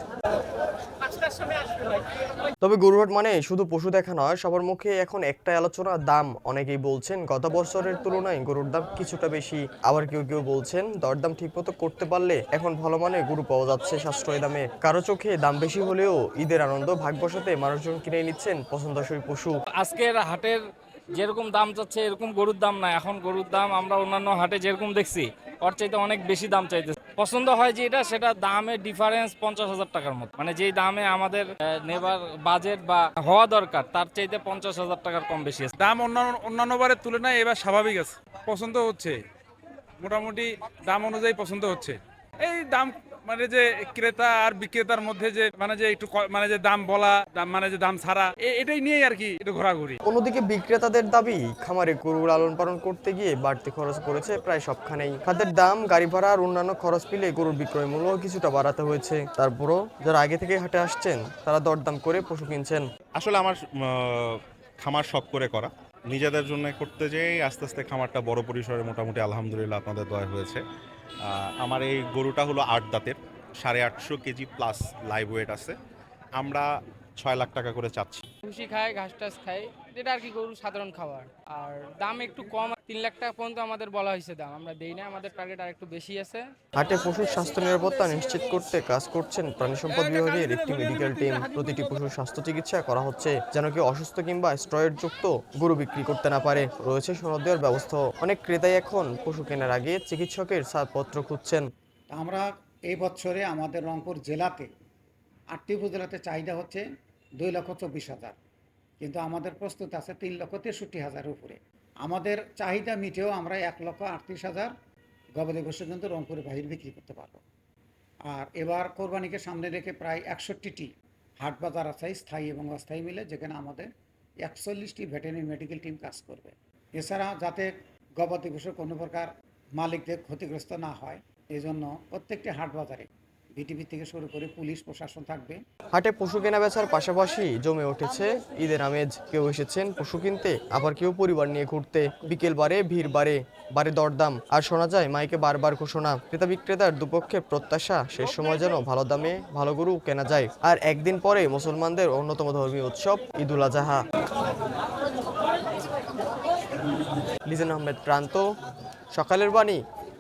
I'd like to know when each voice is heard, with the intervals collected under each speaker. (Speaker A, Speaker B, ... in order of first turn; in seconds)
Speaker A: 2.6-19.5, 50.0-62.8, 86.8-101.6, 135.9-154.1, 157.5-158.5, 159.1-159.8
Speaker B: 19.8-20.6, 21.1-35.7
Speaker C: 35.8-39.2, 40.0-50.0
Speaker D: 63.1-70.6, 71.2-75.8, 76.3-78.2
Speaker E: 78.5-86.5
Speaker F: 102.1-104.7, 105.5-106.8, 107.4-108.4, 109.0-114.7, 115.4-117.4, 118.3-123.9, 124.4-129.3, 129.8-135.6